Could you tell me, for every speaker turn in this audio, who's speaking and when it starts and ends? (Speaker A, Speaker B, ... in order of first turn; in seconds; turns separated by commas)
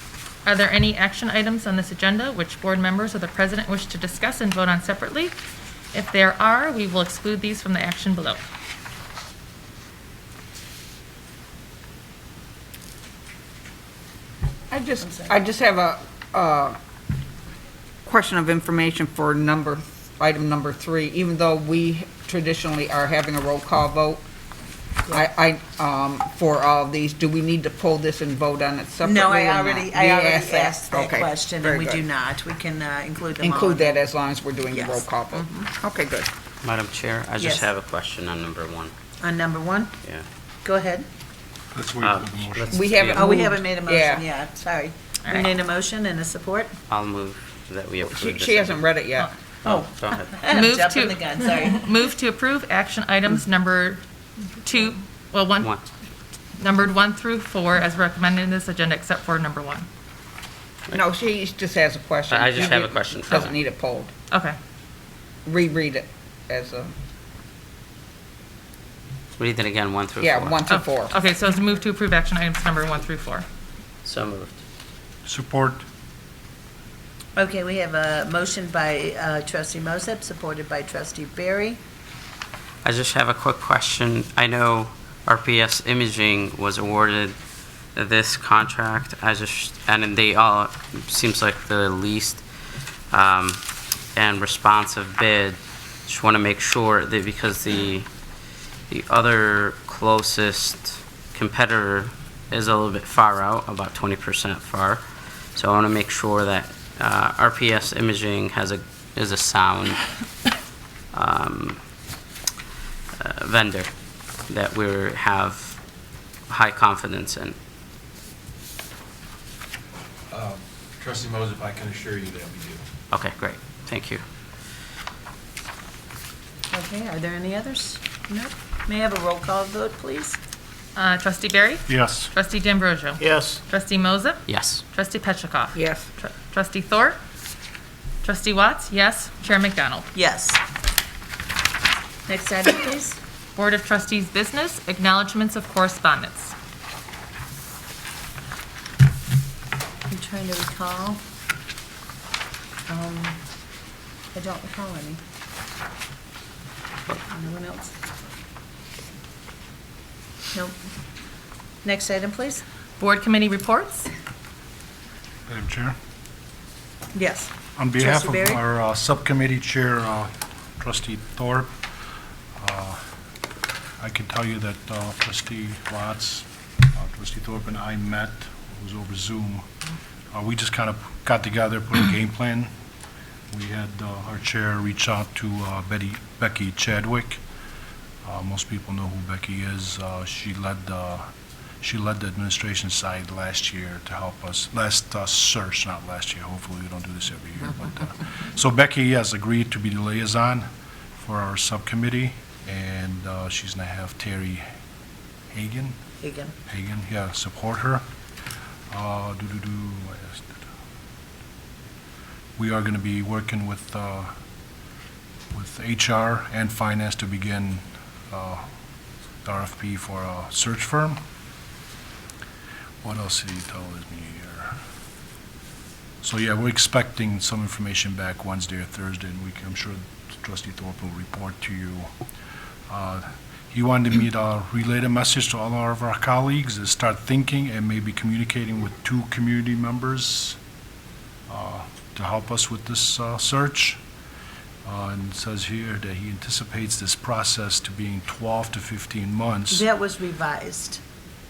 Speaker A: 0.5-5.3, Speaker A: 5.9-8.4, Speaker B: 14.7-16.8, Speaker C: 15.0-15.4, Speaker B: 18.1-24.2, Speaker B: 25.1-32.0, Speaker C: 29.0-34.0, Speaker B: 33.4-36.3, Speaker C: 34.7-35.7, Speaker D: 36.6-38.9, Speaker C: 37.4-37.7, Speaker C: 39.2-40.0, Speaker C: 40.6-41.0, Speaker E: 41.7-43.2, Speaker D: 42.0-43.3, Speaker B: 42.7-44.3, Speaker C: 43.1-46.7, Speaker A: 45.2-45.5, Speaker D: 46.9-48.9, Speaker B: 48.0-49.3, Speaker D: 49.6-50.4, Speaker C: 49.6-51.8, Speaker A: 50.5-54.0, Speaker A: 54.6-55.7, Speaker A: 56.6-59.9, Speaker B: 60.9-64.1, Speaker D: 62.3-63.6, Speaker A: 64.3-64.6, Speaker B: 65.5-66.9, Speaker D: 69.4-70.6, Speaker B: 70.2-71.2, Speaker A: 70.7-73.5, Speaker D: 74.0-74.6, Speaker E: 75.2-75.8, Speaker C: 77.4-81.8, Speaker D: 82.8-87.4, Speaker D: 88.0-92.4, Speaker D: 93.1-93.6, Speaker D: 94.2-98.1, Speaker D: 98.9-110.0, Speaker D: 111.1-111.8, Speaker D: 113.2-113.9, Speaker D: 114.5-115.8, Speaker D: 116.5-117.6, Speaker F: 120.3-122.8, Speaker D: 123.1-124.2, Speaker C: 126.7-130.4, Speaker A: 130.9-137.2, Speaker E: 131.9-132.3, Speaker E: 133.2-133.6, Speaker D: 134.5-134.8, Speaker B: 135.8-136.1, Speaker A: 138.2-140.1, Speaker C: 140.1-140.6, Speaker C: 142.3-143.2, Speaker A: 143.6-146.5, Speaker C: 150.1-151.2, Speaker C: 152.9-153.4, Speaker C: 154.3-155.2, Speaker C: 157.2-157.9, Speaker C: 161.8-162.6, Speaker A: 163.0-164.1, Speaker E: 165.5-165.9, Speaker C: 167.1-168.6, Speaker E: 167.8-171.7, Speaker E: 172.6-173.0, Speaker E: 174.0-179.7, Speaker E: 180.3-182.7, Speaker E: 183.5-187.4, Speaker E: 188.2-191.3, Speaker E: 191.8-200.7, Speaker E: 201.2-204.6, Speaker E: 205.5-206.0, Speaker C: 206.2-206.5, Speaker E: 206.7-208.0, Speaker E: 208.9-210.6, Speaker E: 212.6-214.3, Speaker E: 215.5-218.6, Speaker E: 219.4-221.2, Speaker E: 223.0-224.8, Speaker E: 226.2-232.1, Speaker E: 232.9-240.6, Speaker E: 241.5-244.0, Speaker E: 244.8-249.8, Speaker C: 249.7-251.0